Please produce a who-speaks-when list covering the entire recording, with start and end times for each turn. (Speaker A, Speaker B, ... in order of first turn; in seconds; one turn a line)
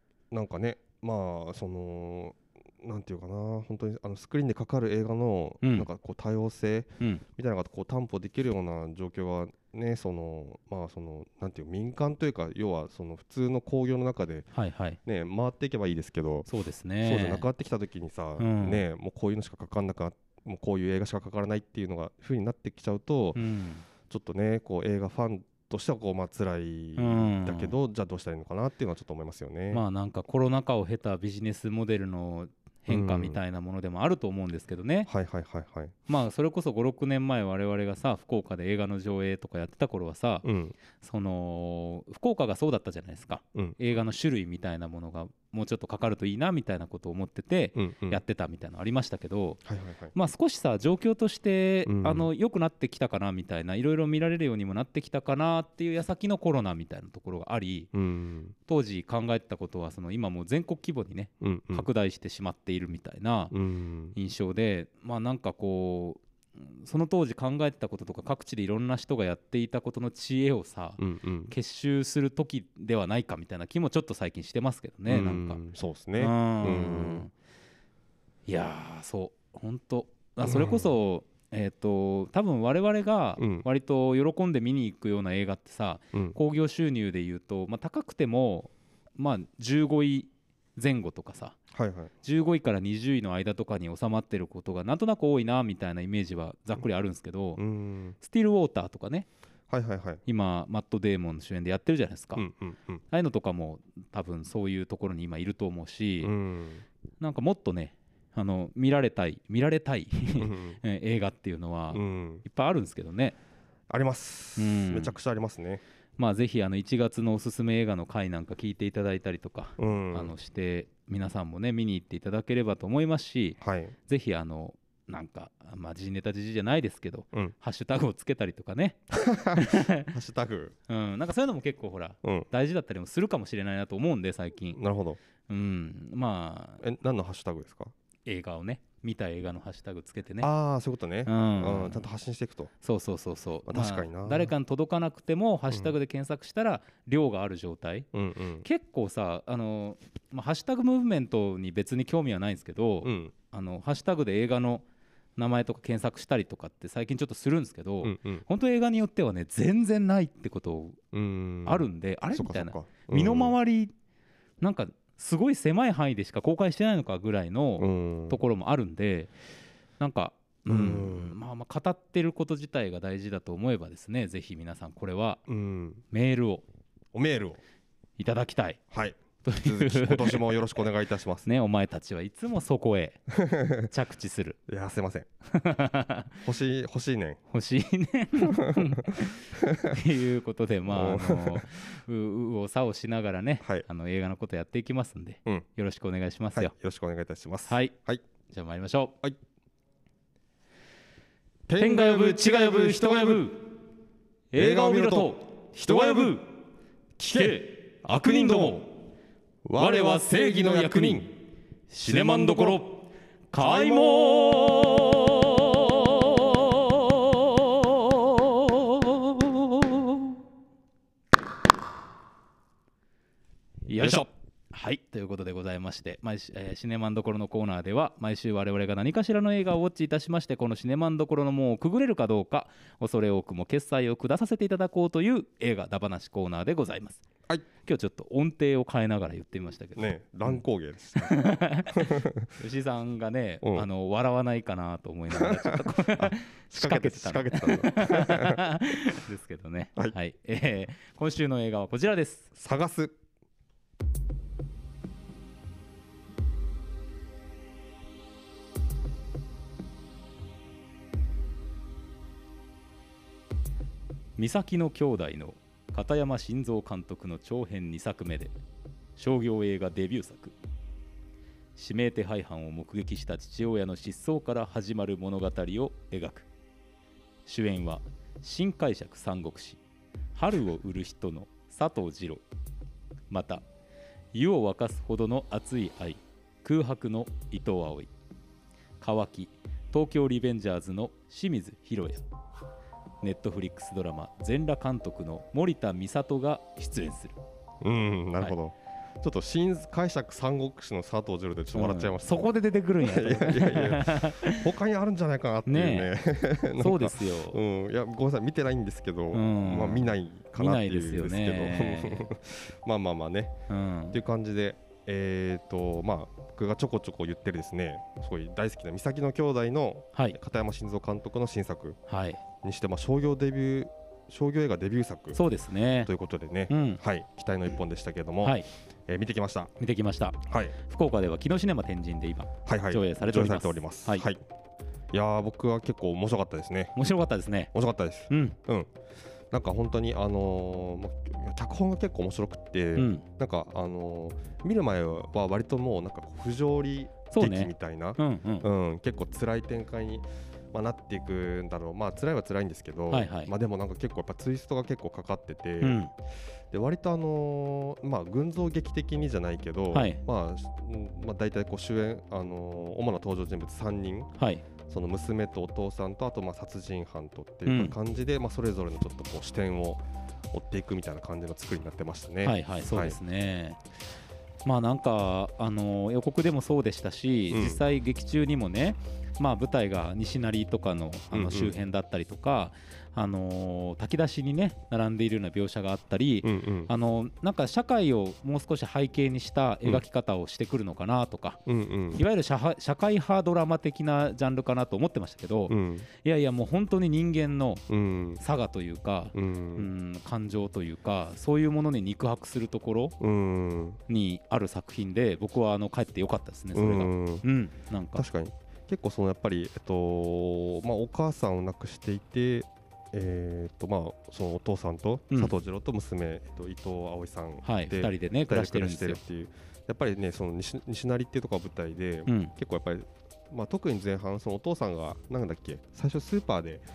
Speaker A: 0.3-14.5
Speaker B: 5.6-5.9
Speaker B: 14.5-15.0
Speaker A: 15.1-16.5
Speaker B: 16.5-17.5
Speaker A: 17.0-23.4
Speaker B: 18.4-18.8
Speaker B: 23.4-23.8
Speaker A: 24.1-29.8
Speaker B: 27.0-27.8
Speaker B: 29.7-35.1
Speaker A: 32.9-33.4
Speaker A: 35.1-36.0
Speaker B: 36.1-40.5
Speaker A: 40.4-40.8
Speaker B: 41.0-49.6
Speaker A: 47.8-48.2
Speaker A: 49.6-50.1
Speaker B: 50.1-57.9
Speaker A: 51.9-52.3
Speaker A: 57.9-58.5
Speaker B: 58.7-63.5
Speaker A: 61.4-61.9
Speaker A: 63.5-64.2
Speaker B: 64.1-75.6
Speaker A: 71.0-71.5
Speaker A: 75.1-77.3
Speaker B: 76.2-77.3
Speaker B: 78.5-91.6
Speaker A: 80.4-80.9
Speaker A: 83.4-83.7
Speaker A: 91.7-92.1
Speaker B: 92.2-97.6
Speaker A: 97.6-98.2
Speaker B: 98.2-99.3
Speaker A: 99.7-100.2
Speaker B: 100.3-102.5
Speaker A: 102.3-103.0
Speaker B: 103.1-106.3
Speaker A: 106.2-106.8
Speaker B: 107.2-113.4
Speaker A: 110.4-110.8
Speaker A: 111.9-112.4
Speaker A: 113.9-115.8
Speaker B: 114.6-115.2
Speaker B: 116.2-130.1
Speaker A: 119.8-120.3
Speaker A: 123.6-124.0
Speaker A: 129.1-130.7
Speaker B: 130.9-134.8
Speaker A: 132.2-132.5
Speaker A: 134.8-135.2
Speaker B: 135.5-136.8
Speaker A: 136.8-137.9
Speaker B: 138.3-140.5
Speaker A: 140.4-142.7
Speaker B: 141.3-142.1
Speaker B: 142.8-148.1
Speaker A: 143.7-144.5
Speaker A: 148.1-148.7
Speaker B: 148.6-154.8
Speaker A: 153.0-153.3
Speaker B: 155.4-161.0
Speaker A: 158.0-158.4
Speaker A: 161.1-163.6
Speaker B: 161.7-163.9
Speaker B: 164.6-169.3
Speaker A: 167.8-168.4
Speaker B: 170.0-175.4
Speaker A: 170.7-171.3
Speaker A: 175.5-176.0
Speaker B: 176.1-176.6
Speaker A: 177.1-177.6
Speaker B: 178.2-178.8
Speaker A: 178.9-181.5
Speaker B: 179.4-180.5
Speaker B: 181.4-183.2
Speaker A: 183.3-183.9
Speaker B: 183.9-184.6
Speaker A: 184.7-185.3
Speaker B: 185.5-186.4
Speaker A: 186.4-187.4
Speaker B: 187.5-196.7
Speaker A: 188.4-189.0
Speaker A: 189.5-190.0
Speaker A: 190.9-191.7
Speaker A: 196.6-198.2
Speaker B: 197.7-197.9
Speaker B: 198.5-199.2
Speaker A: 201.7-203.5
Speaker B: 201.8-203.6
Speaker B: 204.5-206.4
Speaker A: 204.5-206.4
Speaker A: 207.2-208.9
Speaker B: 207.3-208.8
Speaker A: 209.7-211.3
Speaker B: 209.8-211.3
Speaker B: 211.9-220.2
Speaker A: 212.0-212.8
Speaker A: 213.6-214.9
Speaker B: 223.9-237.2
Speaker A: 224.0-224.3
Speaker B: 237.8-240.6
Speaker A: 240.0-241.4
Speaker B: 241.2-252.5
Speaker A: 241.9-242.5
Speaker A: 243.6-243.9
Speaker A: 245.3-248.7
Speaker A: 252.6-253.2
Speaker B: 264.4-268.5
Speaker B: 269.2-270.6
Speaker B: 271.8-276.5
Speaker B: 277.5-279.8
Speaker B: 280.4-282.4
Speaker B: 283.3-283.6
Speaker B: 284.3-288.1
Speaker B: 289.0-292.2
Speaker B: 293.2-297.4
Speaker A: 297.8-302.5
Speaker B: 301.8-304.7
Speaker A: 303.0-313.6
Speaker B: 305.7-306.1
Speaker B: 306.8-307.6
Speaker B: 309.3-312.3
Speaker B: 313.7-314.2
Speaker A: 314.1-322.0
Speaker B: 322.1-322.4
Speaker A: 322.6-325.4
Speaker B: 325.3-326.1
Speaker A: 326.1-329.7
Speaker B: 326.7-327.0
Speaker B: 329.8-334.3
Speaker A: 330.5-330.8
Speaker A: 332.7-334.4
Speaker A: 335.1-336.9
Speaker B: 336.9-337.7
Speaker A: 337.7-338.9
Speaker B: 338.3-338.6
Speaker A: 339.5-356.0
Speaker B: 343.0-343.2
Speaker B: 347.3-348.7
Speaker B: 353.1-353.5
Speaker B: 355.8-356.1
Speaker A: 356.7-364.3
Speaker B: 359.9-360.2
Speaker B: 364.4-364.6
Speaker A: 364.9-373.2
Speaker B: 367.7-367.9
Speaker B: 372.4-373.8
Speaker B: 374.6-391.6
Speaker A: 377.5-377.8
Speaker A: 381.3-381.7
Speaker A: 386.4-386.9
Speaker A: 391.7-392.2
Speaker B: 392.1-397.8
Speaker A: 395.7-396.1
Speaker A: 397.9-398.4
Speaker B: 398.4-403.1
Speaker A: 399.3-399.9
Speaker A: 403.2-404.0
Speaker B: 404.1-408.2
Speaker A: 406.7-407.4
Speaker A: 408.1-426.8
Speaker B: 417.6-419.2
Speaker B: 422.3-422.5